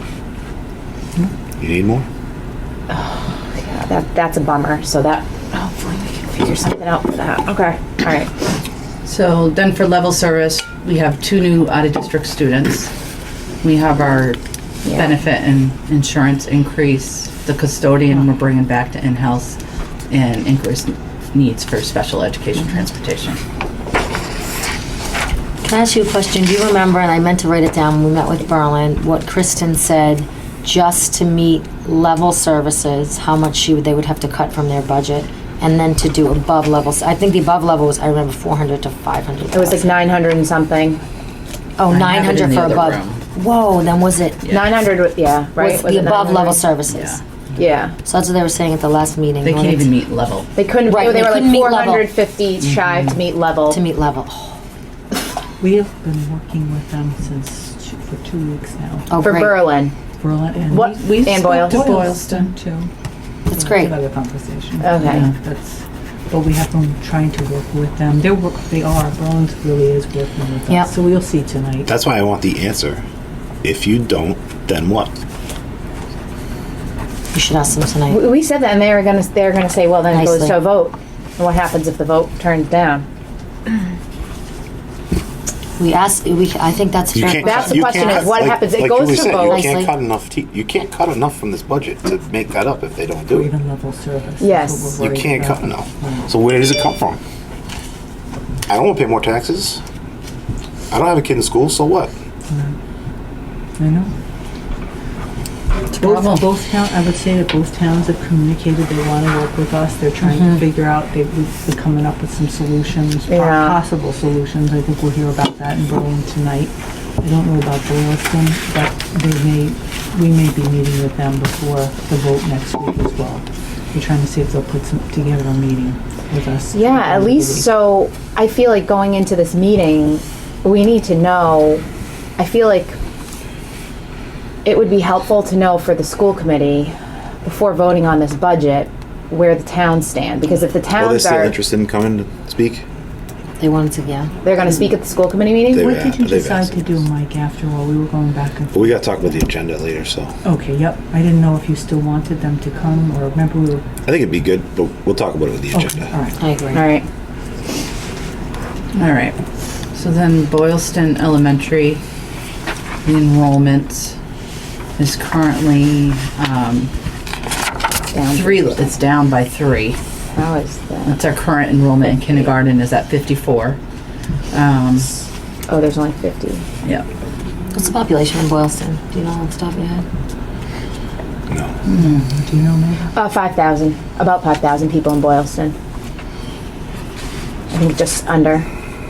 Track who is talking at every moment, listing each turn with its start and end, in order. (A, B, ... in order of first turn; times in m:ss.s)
0:01.6-0:02.0 A
0:02.9-0:08.3 B
0:09.0-0:12.9 C
0:13.6-0:14.4 C
0:14.8-0:15.2 B
0:14.9-0:19.6 C
0:20.1-0:23.4 C
0:25.6-0:39.9 D
0:39.5-0:41.0 B
0:41.8-0:44.4 D
0:41.9-0:43.2 C
0:44.4-0:44.7 C
0:44.5-0:46.7 B
0:45.6-0:47.2 D
0:46.9-0:47.2 C
0:47.6-0:48.0 B
0:48.0-0:49.9 D
0:49.4-0:50.5 C
0:50.6-0:53.8 B
0:50.8-0:52.0 D
0:52.6-0:53.2 C
0:53.7-0:54.6 D
0:55.6-0:59.2 E
0:59.1-0:59.6 D
0:59.2-0:59.9 B
1:00.2-1:02.9 E
1:00.7-1:01.8 B
1:00.7-1:02.5 C
1:03.5-1:03.9 D
1:03.5-1:11.9 E
1:04.8-1:05.2 B
1:11.8-1:13.0 A
1:13.6-1:15.1 A
1:17.3-1:18.2 D
1:18.1-1:23.0 B
1:20.1-1:20.6 D
1:25.8-1:28.2 D
1:27.1-1:33.5 A
1:27.4-1:29.6 B
1:29.4-1:29.9 D
1:33.3-1:36.3 E
1:34.4-1:35.0 B
1:35.0-1:37.2 A
1:38.7-1:39.8 A
1:40.9-1:42.1 A
1:42.5-1:42.7 E
1:43.8-1:44.1 E
1:45.9-1:46.5 C
1:45.9-2:07.7 E
1:53.3-1:53.7 B
2:06.7-2:11.8 B
2:12.4-2:13.0 B
2:14.6-2:21.6 B
2:20.9-2:22.8 A
2:23.6-2:24.3 D
2:24.4-2:25.9 B
2:25.7-2:26.8 A
2:25.8-2:29.2 E
2:28.7-2:30.4 A
2:30.4-2:33.9 E
2:34.0-2:36.1 A
2:35.7-2:36.4 E
2:36.4-2:36.8 D
2:36.7-2:37.1 B
2:38.9-2:39.4 C
2:39.9-2:42.0 C
2:43.0-2:44.2 C
2:45.0-2:46.9 C
2:48.1-2:48.8 B
2:48.3-2:50.0 C
2:50.3-2:51.2 B
2:51.0-2:53.8 C
2:52.0-2:52.5 B
2:54.5-2:55.1 C
2:55.7-2:56.6 B
2:57.7-3:00.0 D
3:01.5-3:01.8 A
3:01.9-3:02.2 C
3:01.9-3:03.1 E
3:03.1-3:05.7 B
3:07.7-3:08.7 B